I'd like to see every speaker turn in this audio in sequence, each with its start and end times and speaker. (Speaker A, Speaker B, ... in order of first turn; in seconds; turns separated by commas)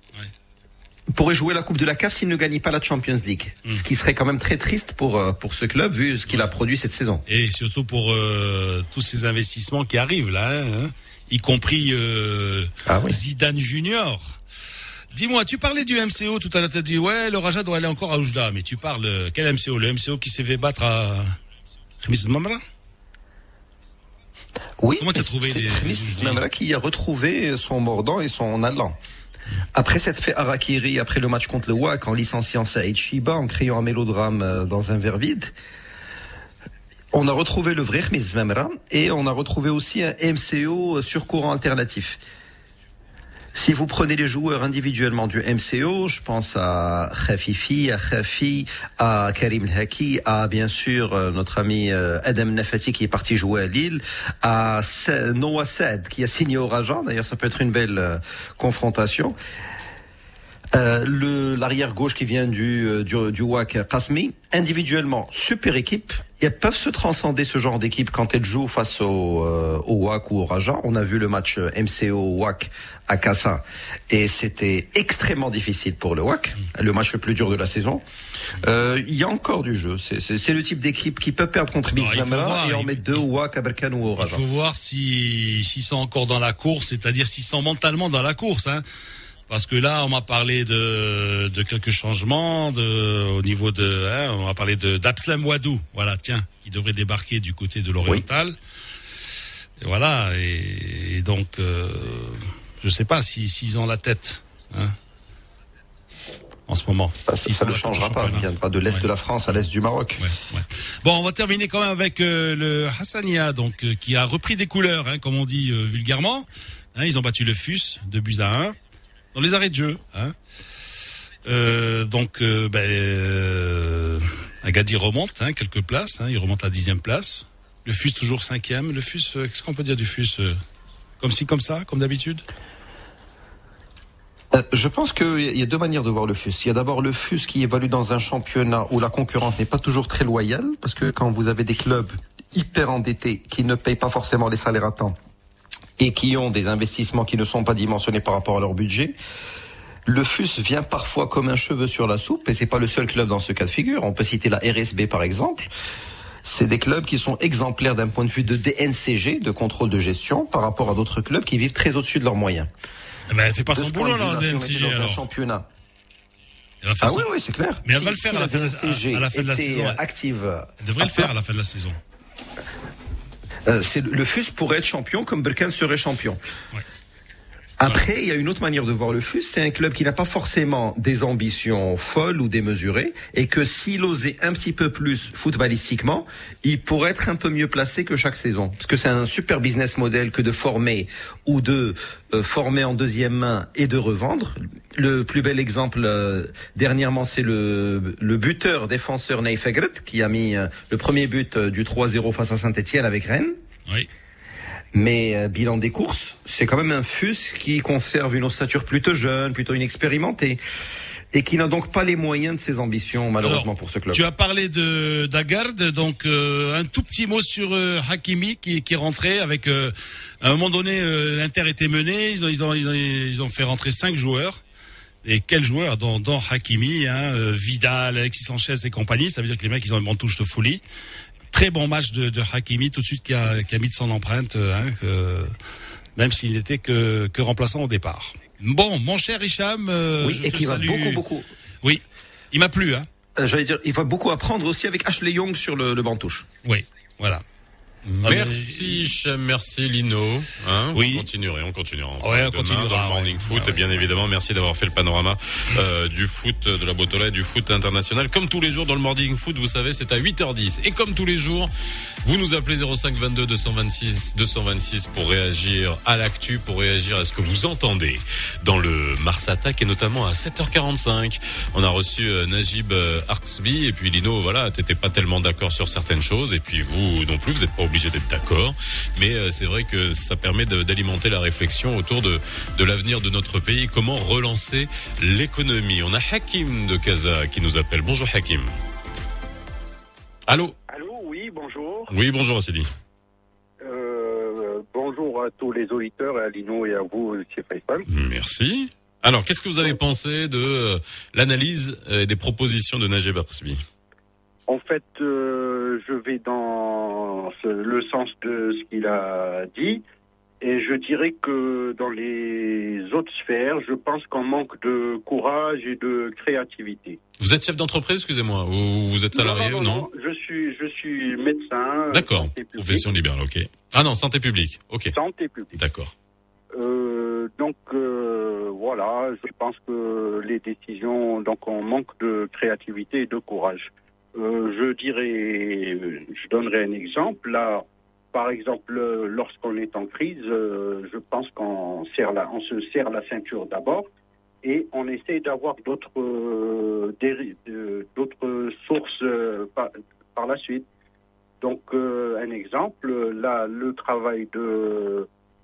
Speaker A: 1.1-7.2, Speaker B: 6.3-6.6, Speaker B: 7.3-14.4, Speaker A: 12.9-13.2, Speaker B: 15.1-21.4, Speaker B: 22.0-22.6, Speaker A: 24.8-29.0, Speaker B: 25.0-26.4, Speaker A: 29.7-35.5, Speaker A: 37.1-42.2, Speaker A: 43.5-59.4, Speaker A: 60.7-78.0, Speaker A: 78.6-84.4, Speaker B: 82.0-83.2, Speaker B: 84.2-88.8, Speaker B: 89.5-98.6, Speaker B: 99.8-105.0, Speaker B: 106.7-109.1, Speaker A: 107.3-110.3, Speaker B: 110.2-118.8, Speaker B: 119.3-120.3, Speaker B: 121.4-130.6, Speaker B: 131.2-132.4, Speaker A: 134.5-145.2, Speaker A: 146.0-149.2, Speaker A: 150.1-155.7, Speaker A: 156.4-162.7, Speaker B: 163.3-165.2, Speaker A: 163.7-165.7, Speaker B: 166.8-167.3, Speaker A: 167.0-171.3, Speaker B: 167.8-170.0, Speaker B: 170.8-172.0, Speaker A: 173.7-176.4, Speaker A: 177.8-203.6, Speaker A: 204.9-210.6, Speaker A: 211.3-214.2, Speaker B: 213.4-224.6, Speaker B: 225.2-230.8, Speaker B: 231.5-235.5, Speaker B: 236.2-241.2, Speaker A: 240.2-241.5, Speaker B: 241.8-243.1, Speaker A: 243.4-246.5, Speaker B: 246.6-247.4, Speaker C: 248.1-261.7, Speaker B: 248.2-249.1, Speaker B: 250.9-251.3, Speaker B: 252.2-254.0, Speaker C: 262.2-288.7, Speaker C: 290.5-290.8, Speaker D: 290.9-292.1, Speaker C: 292.1-292.9, Speaker D: 293.8-298.1, Speaker C: 298.1-303.8, Speaker D: 304.7-310.0, Speaker D: 310.6-317.2, Speaker C: 317.4-320.1, Speaker D: 319.3-323.1, Speaker C: 322.1-325.1, Speaker D: 325.1-325.8, Speaker C: 325.8-326.1, Speaker D: 326.8-344.1, Speaker D: 344.6-350.9, Speaker D: 351.6-355.3